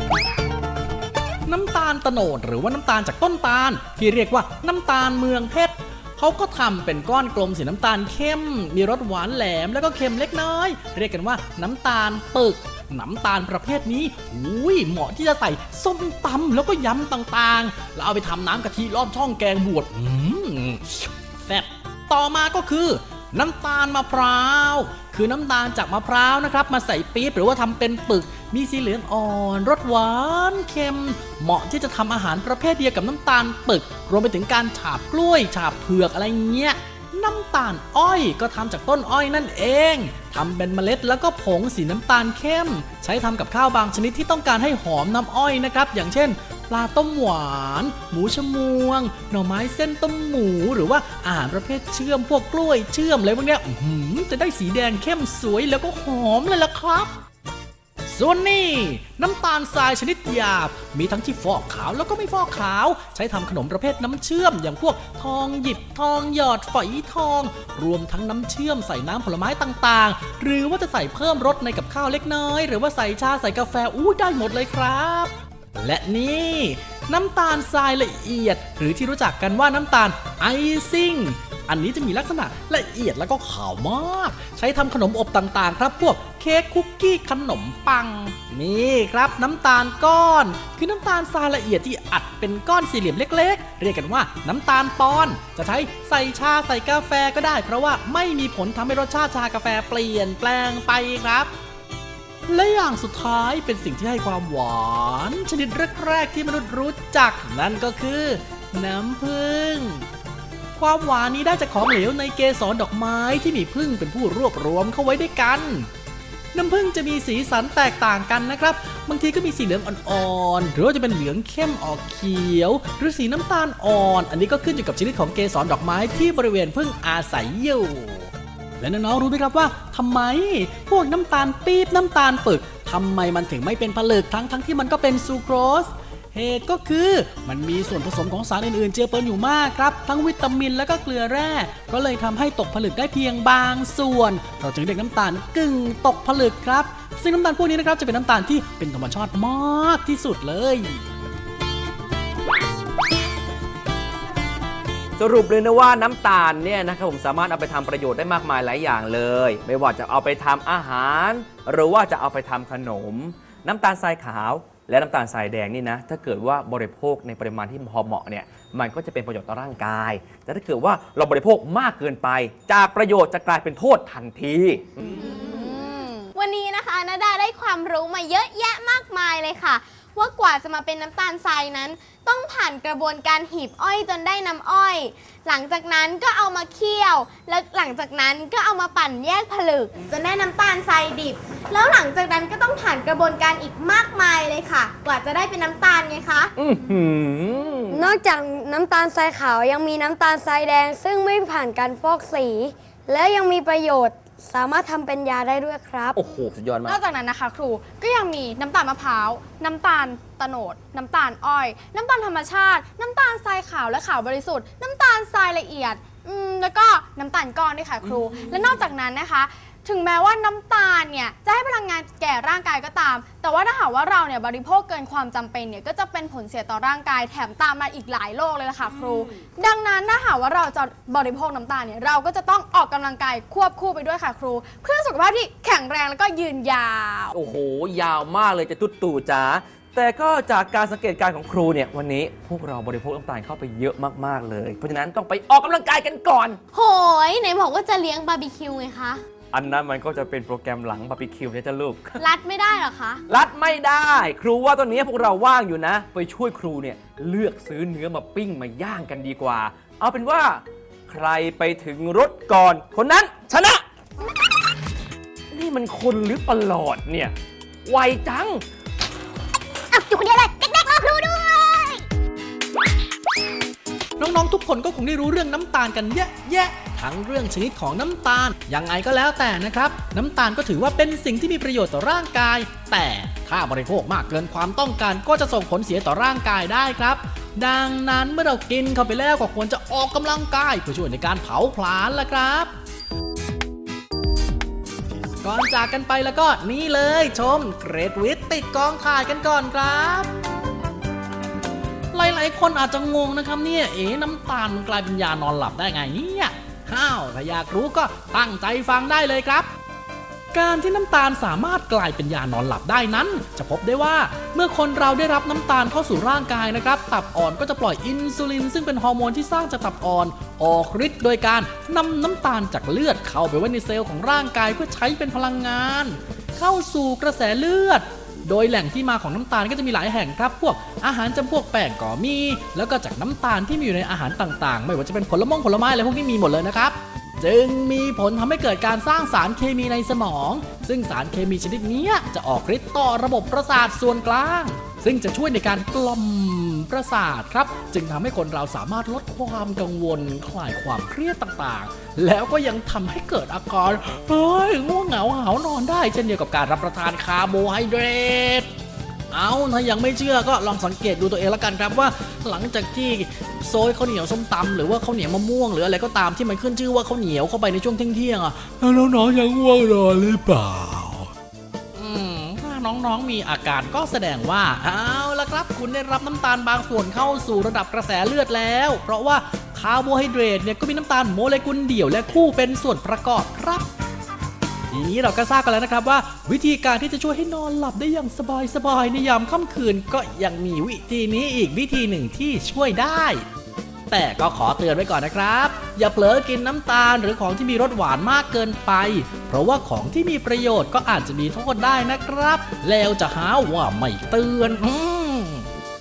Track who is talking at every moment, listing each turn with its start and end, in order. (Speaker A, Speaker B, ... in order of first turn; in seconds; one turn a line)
Speaker A: 1.4-57.1
Speaker A: 58.1-101.5
Speaker A: 102.5-110.0
Speaker A: 110.8-115.9
Speaker A: 116.5-151.0
Speaker B: 155.2-175.4
Speaker C: 175.2-196.5
Speaker D: 175.4-176.3
Speaker B: 196.6-198.1
Speaker E: 197.9-206.2
Speaker B: 206.1-207.0
Speaker D: 206.8-237.3
Speaker B: 237.3-246.6
Speaker C: 246.7-249.2
Speaker B: 249.5-252.2
Speaker C: 252.2-253.2
Speaker B: 253.3-263.8
Speaker B: 265.5-267.3
Speaker B: 267.8-268.6
Speaker C: 269.9-272.0
Speaker A: 274.2-292.7
Speaker A: 295.4-300.3
Speaker A: 302.1-309.7
Speaker A: 310.5-358.7
Speaker A: 359.3-371.3
Speaker A: 371.9-383.9
Speaker A: 384.9-393.4
Speaker A: 394.1-405.7